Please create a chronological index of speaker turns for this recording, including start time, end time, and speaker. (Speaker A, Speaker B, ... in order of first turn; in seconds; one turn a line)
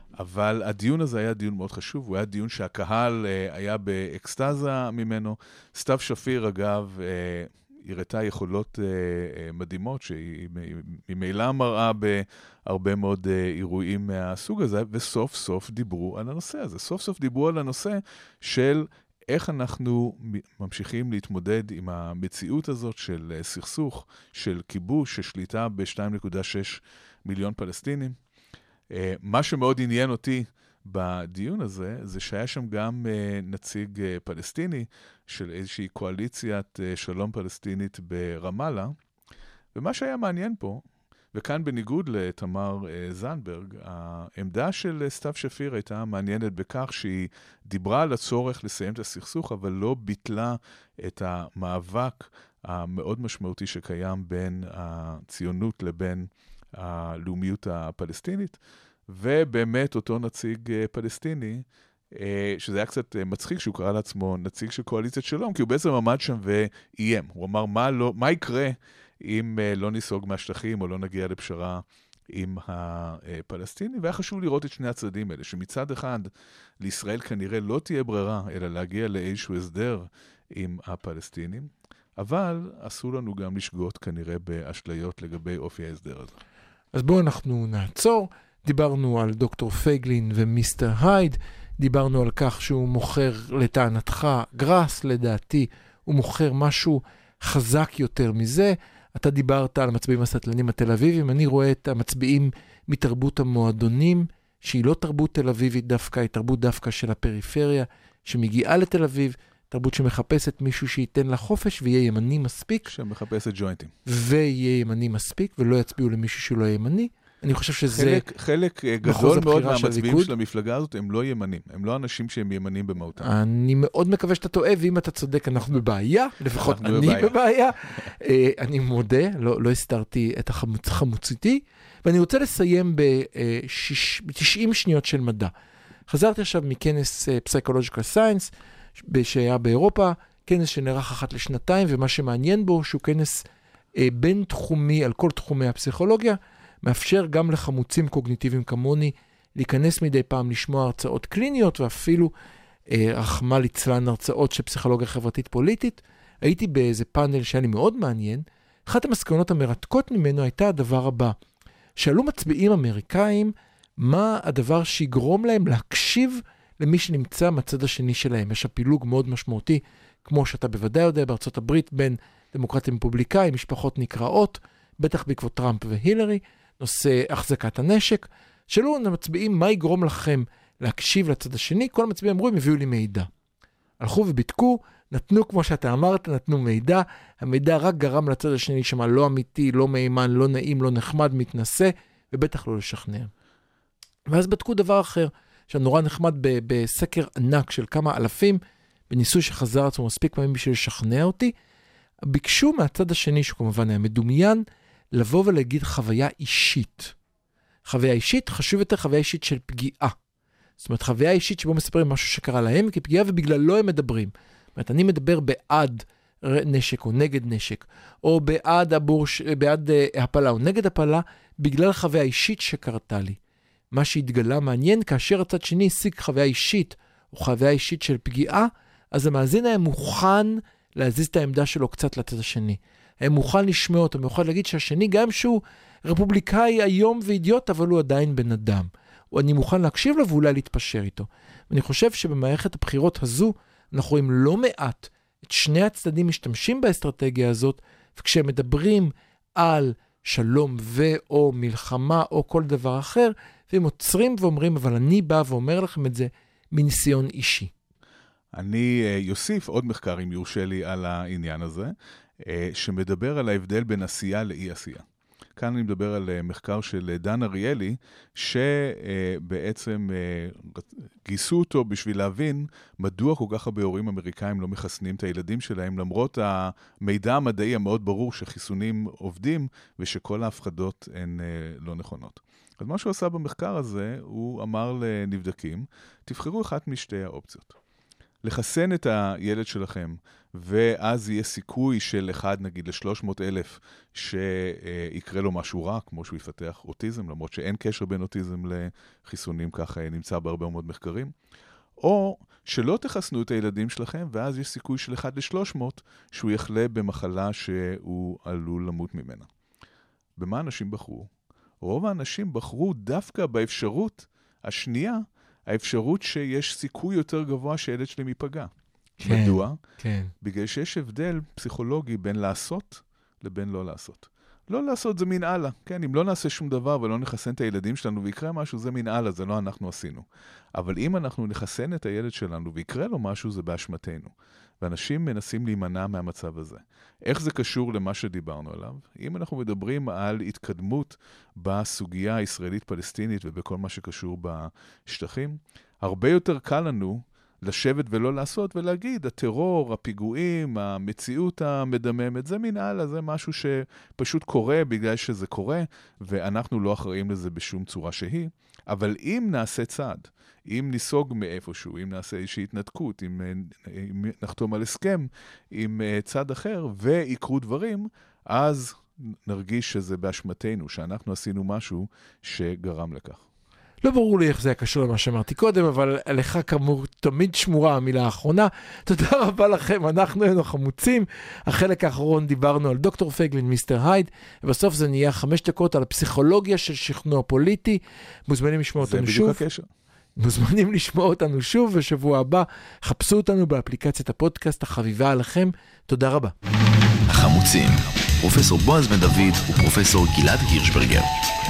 Speaker A: 0.2-28.2
Speaker A: 28.9-38.9
Speaker A: 39.7-58.6
Speaker A: 59.1-86.3
Speaker B: 86.9-112.9
Speaker A: 112.8-113.9
Speaker B: 114.0-118.2
Speaker A: 117.9-123.3
Speaker B: 119.0-120.3
Speaker B: 123.2-135.5
Speaker A: 126.5-127.4
Speaker B: 136.1-152.3
Speaker B: 152.9-161.3
Speaker B: 161.9-183.3
Speaker B: 184.0-193.3
Speaker B: 194.3-201.5
Speaker B: 202.3-207.1
Speaker B: 207.8-210.2
Speaker B: 210.8-223.4
Speaker B: 223.9-257.7
Speaker A: 258.5-265.0
Speaker A: 265.6-287.8
Speaker A: 288.4-301.3
Speaker A: 302.0-309.5
Speaker A: 310.4-311.3
Speaker A: 311.8-318.7
Speaker B: 319.2-320.3
Speaker A: 319.2-319.8
Speaker A: 320.4-373.4
Speaker B: 374.0-389.6
Speaker A: 389.0-389.9
Speaker B: 390.4-396.5
Speaker C: 397.3-401.3